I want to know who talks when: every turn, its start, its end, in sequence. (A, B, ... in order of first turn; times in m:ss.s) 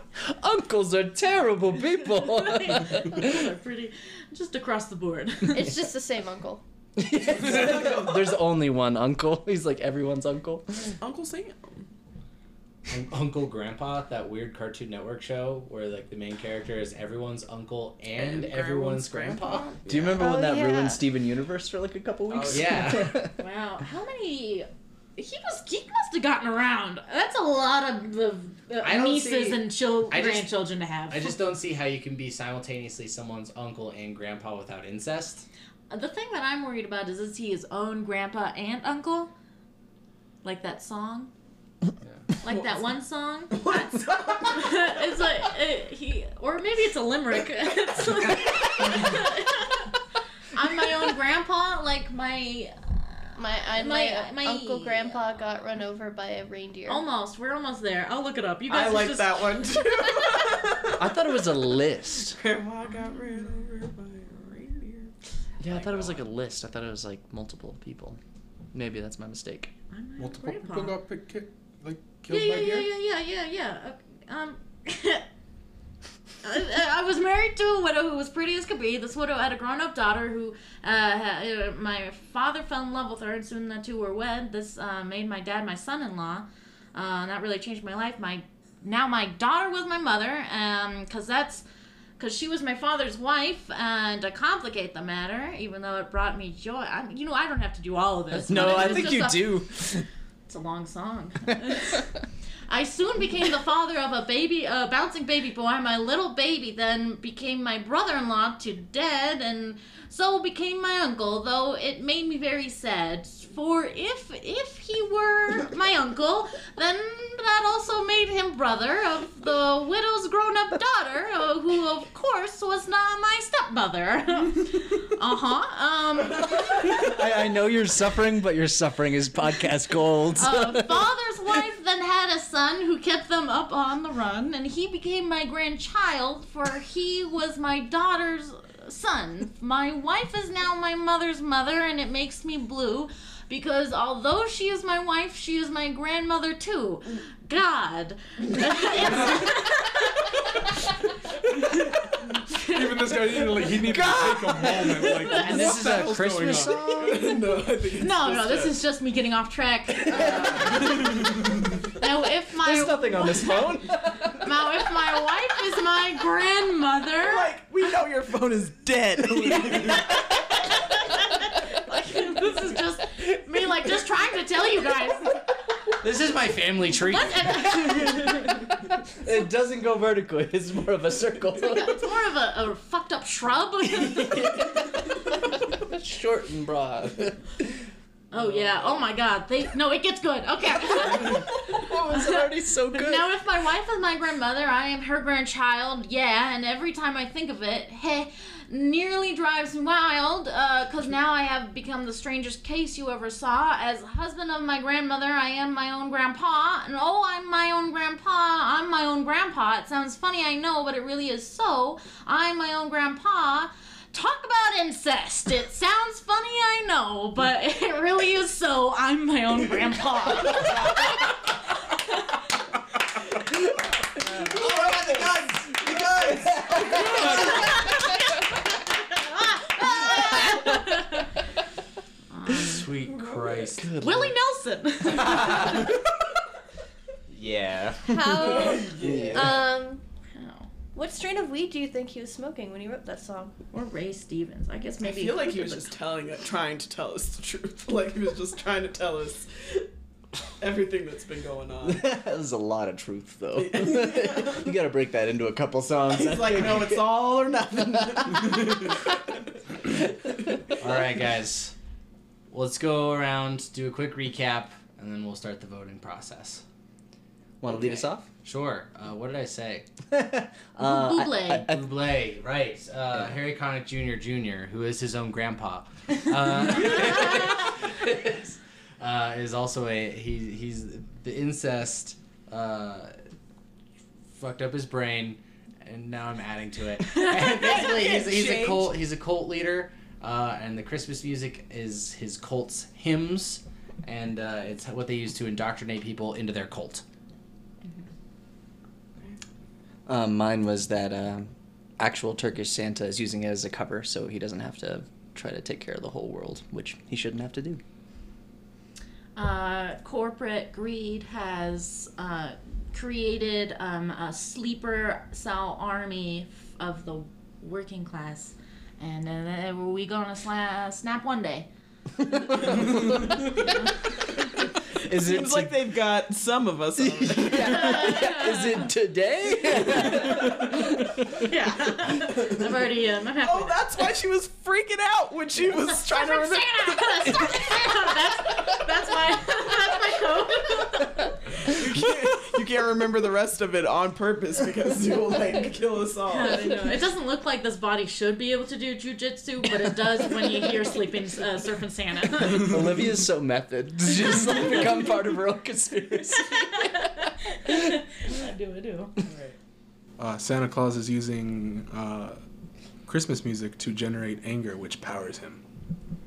0:00.2-0:03.5 A
0:02.3-0:05.7 B
0:05.5-0:06.6 C
0:07.0-0:10.9 A
0:07.4-0:08.0 D
0:11.0-0:11.8 D
0:12.9-0:19.7 E
0:18.1-0:20.2 D
0:19.9-0:23.4 A
0:20.1-0:21.0 C
0:22.3-0:22.9 D
0:22.5-0:23.2 E
0:23.4-0:31.4 B
0:28.8-0:30.5 E
0:31.1-0:35.4 E
0:35.9-0:39.3 B
0:40.4-0:41.3 B
0:42.4-0:49.9 B
0:42.4-0:42.9 D
0:43.5-0:45.0 D
0:50.5-0:55.3 B
0:53.4-0:57.0 C
0:56.9-0:59.5 B
0:58.7-1:01.1 D
1:01.0-1:02.4 A
1:02.2-1:05.1 D
1:05.6-1:08.2 A
1:05.7-1:06.2 E
1:08.7-1:09.7 A
1:09.9-1:11.0 B
1:10.2-1:12.9 F
1:12.3-1:15.2 B
1:16.4-1:31.6 B
1:32.2-1:39.6 B
1:38.3-1:40.0 A
1:38.5-1:39.1 E
1:40.5-1:42.0 B
1:42.7-2:06.6 B
2:06.7-2:11.6 A
2:10.4-2:30.7 B
2:32.5-2:33.6 B
2:32.6-2:37.4 F
2:33.7-2:35.9 A
2:34.6-2:35.5 B
2:35.3-2:37.2 E
2:36.6-2:37.4 A
2:37.0-2:38.8 D
2:38.0-2:43.8 B
2:40.1-2:41.0 A
2:42.6-2:44.5 A
2:44.3-2:47.5 B
2:47.1-2:50.5 D
2:49.6-2:50.2 B
2:50.8-2:55.4 B
2:56.0-2:57.6 E
2:57.0-2:58.6 B
2:57.6-2:58.6 A
2:59.1-3:02.0 A
3:01.7-3:04.6 B
3:04.0-3:07.4 A
3:08.3-3:41.0 B
3:10.8-3:13.3 A
3:44.2-3:48.0 A
3:47.3-3:48.0 B
3:49.2-3:51.3 B
3:49.9-3:50.3 A
3:52.3-3:52.8 B
3:52.5-3:53.9 E
3:53.8-3:54.3 A
3:54.0-3:55.8 B
3:55.1-3:55.8 A
3:57.3-3:59.6 A
3:58.1-4:00.0 C
3:58.6-3:59.4 D
4:00.3-4:00.7 B
4:00.9-4:03.6 C
4:03.7-4:05.9 B
4:05.0-4:09.9 D
4:10.6-4:12.1 D
4:11.8-4:19.0 A
4:13.5-4:14.7 D
4:16.0-4:18.9 D
4:20.8-4:21.7 E
4:22.5-4:26.6 E
4:27.6-4:28.3 A
4:27.6-4:29.9 E
4:30.1-4:31.9 A
4:30.8-4:31.6 B
4:31.7-4:43.1 E
4:44.3-4:57.0 E
4:47.3-4:49.0 D
5:00.0-5:07.8 A
5:09.4-5:21.7 B
5:22.7-5:23.0 A
5:24.9-5:25.9 A
5:25.1-5:28.2 D
5:27.0-5:30.9 A
5:27.6-5:28.9 B
5:29.9-5:30.5 B
5:31.3-5:33.7 B
5:33.4-5:37.6 D
5:35.6-5:41.5 B
5:41.6-5:47.0 D
5:46.3-5:52.8 B
5:52.4-5:57.1 A
5:56.5-5:59.2 B
5:59.2-5:59.6 D
6:00.2-6:02.4 F
6:03.0-6:05.6 F